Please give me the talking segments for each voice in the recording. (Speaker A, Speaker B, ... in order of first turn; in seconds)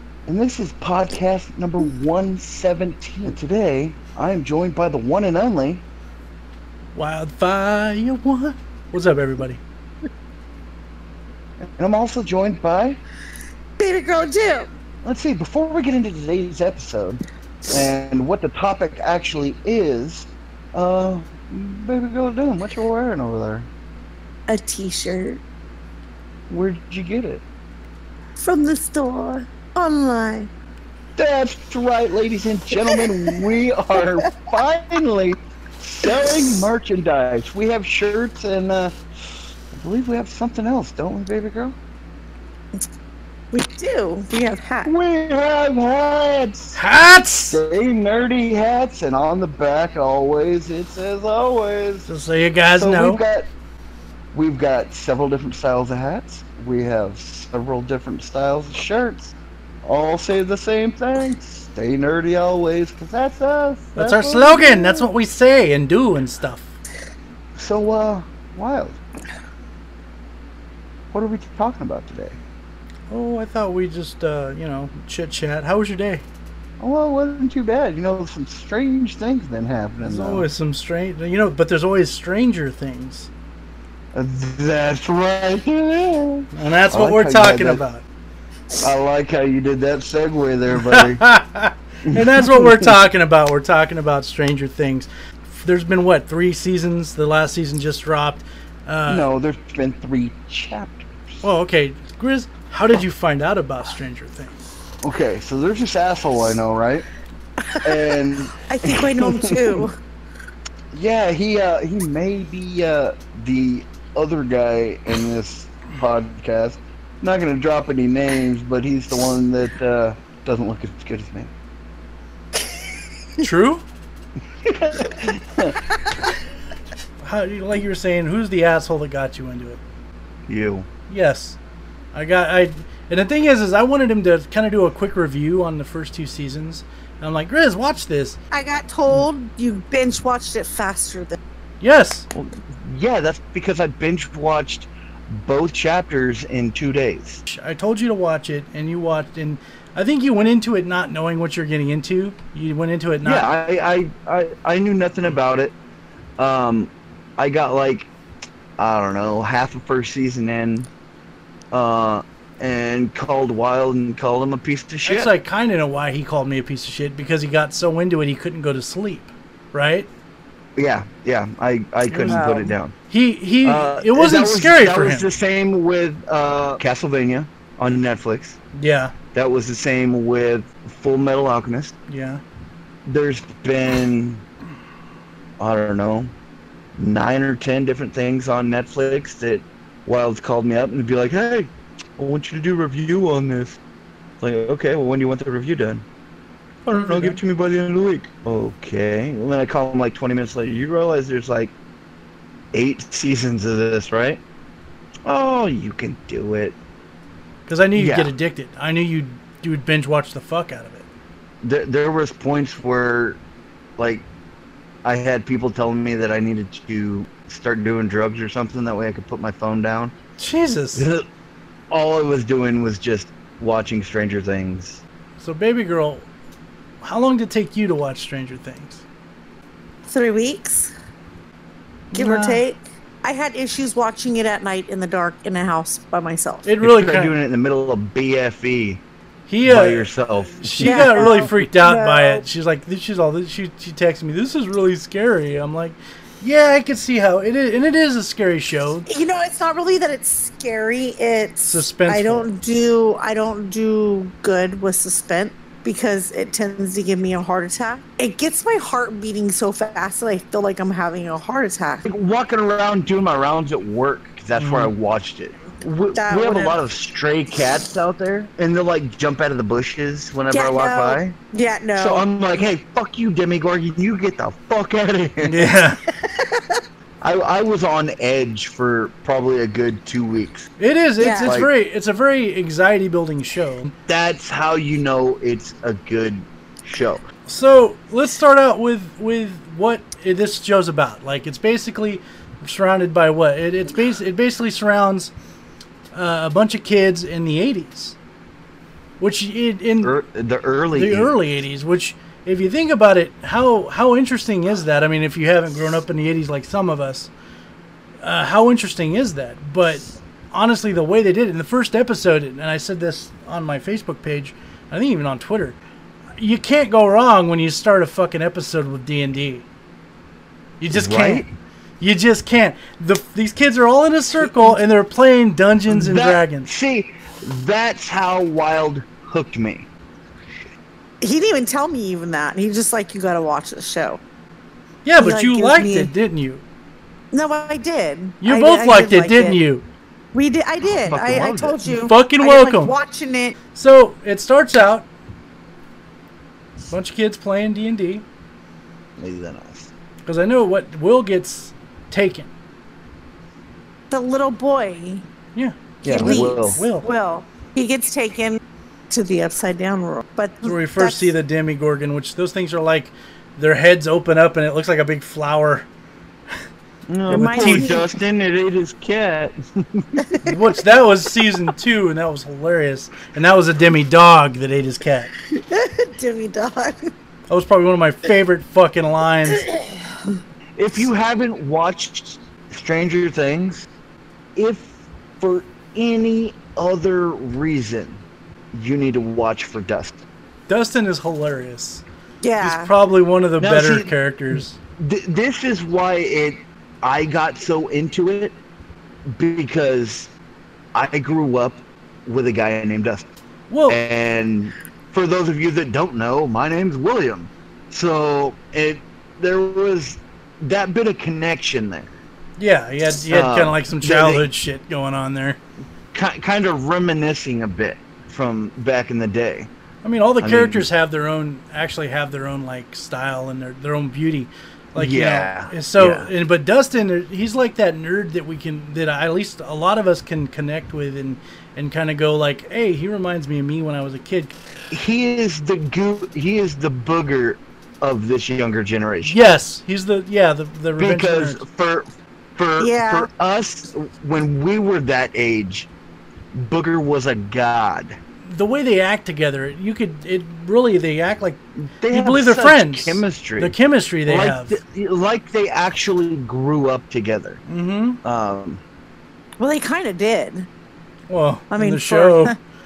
Speaker A: 0.3-5.8, 11.6-13.0, 15.0-23.7, 26.5-27.4, 31.2-39.0, 39.7-41.8, 44.8-46.8, 47.5-52.1, 52.7-53.5, 54.3-59.3, 59.9-65.0, 67.6-69.0, 71.1-72.4, 76.8-80.5, 84.2-87.8, 88.8-91.3, 92.0-93.0, 99.1-101.4, 105.0-107.1, 107.8-109.9, 110.9-121.5, 124.6-125.8, 130.5-130.9, 142.3-147.4, 153.2-155.8, 156.4-158.1, 158.8-160.9, 161.7-165.3, 170.8-172.9, 173.6-178.6, 179.3-181.9, 183.1-184.4, 185.6-186.3, 187.0-193.8, 194.4-196.0, 196.9-201.7, 202.7-204.4, 205.3-206.8, 208.0-208.3, 211.6-213.4, 214.0-214.2, 215.0-220.1, 220.9-221.2, 221.9-225.0, 236.8-239.0, 239.6-241.2, 262.1-271.3, 271.9-275.7, 277.2-280.7, 281.4-281.7, 284.1-287.3, 300.0-301.3, 320.9-321.5, 324.4-324.7, 325.9-329.9, 340.8-341.9, 349.2-349.9, 356.0-356.8, 367.1-370.4, 380.8-383.9, 384.6-388.2, 388.7-390.2, 393.6-398.6, 399.3-400.3, 400.9-403.3, 403.9-412.1, 413.3-414.5, 416.1-419.7, 420.4-420.9, 425.0-426.3, 434.9-439.4, 441.0-442.1, 442.6-445.9, 446.5-448.2, 451.8-453.7, 454.3-457.6, 458.2-458.8
Speaker B: 6.9-9.6, 46.8-47.6, 52.1-53.2, 64.0-66.7, 73.1-76.2, 80.0-83.3, 86.5-88.0, 90.7-99.3, 101.4-104.6, 123.4-123.8, 127.2-129.8, 131.1-131.6, 132.1-138.4, 141.8-142.3, 147.5-153.5, 165.1-170.1, 172.1-175.3, 178.7-179.2, 182.1-182.4, 197.0-197.4, 207.7-211.1, 220.4-221.1, 225.4-226.3, 227.0-229.0, 232.1-232.6, 236.7-237.3, 239.5-240.1, 240.6-249.1, 251.7-252.5, 264.6-264.9, 275.4-276.0, 280.8-283.9, 287.5-295.3, 296.1-298.2, 299.2-300.1, 300.9-307.3, 308.2-315.8, 316.4-319.6, 320.8-321.5, 322.0-326.7, 335.1-336.6, 338.4-339.8, 341.9-342.9, 343.8-345.1, 346.9-348.2, 350.2-352.5, 355.6-357.1, 360.6-365.9, 367.3-368.0, 370.4-375.3, 377.5-379.6, 390.7-392.0, 392.6-394.8, 403.7-404.0, 412.6-415.6, 420.0-434.5, 439.2-441.6, 448.5-451.6, 452.1-454.8, 457.7-458.2, 461.3-462.5
Speaker C: 13.8-14.7, 24.5-25.4, 28.4-30.5, 32.8-33.1, 43.5-44.9, 107.7-108.0, 108.7-110.0, 138.5-141.4, 172.3-172.7, 230.1-230.9, 232.2-236.7, 240.8-242.4, 249.1-262.1, 266.1-266.8, 270.5-272.2, 276.2-276.8, 281.2-281.5, 331.2-334.2, 335.2-336.1, 337.3-339.6, 340.3-343.6, 354.1-355.2, 356.1-361.3, 367.3-368.1, 370.3-370.9, 375.4-377.1, 379.5-380.3, 392.4-392.9, 442.8-443.3, 459.6-460.7, 461.7-462.6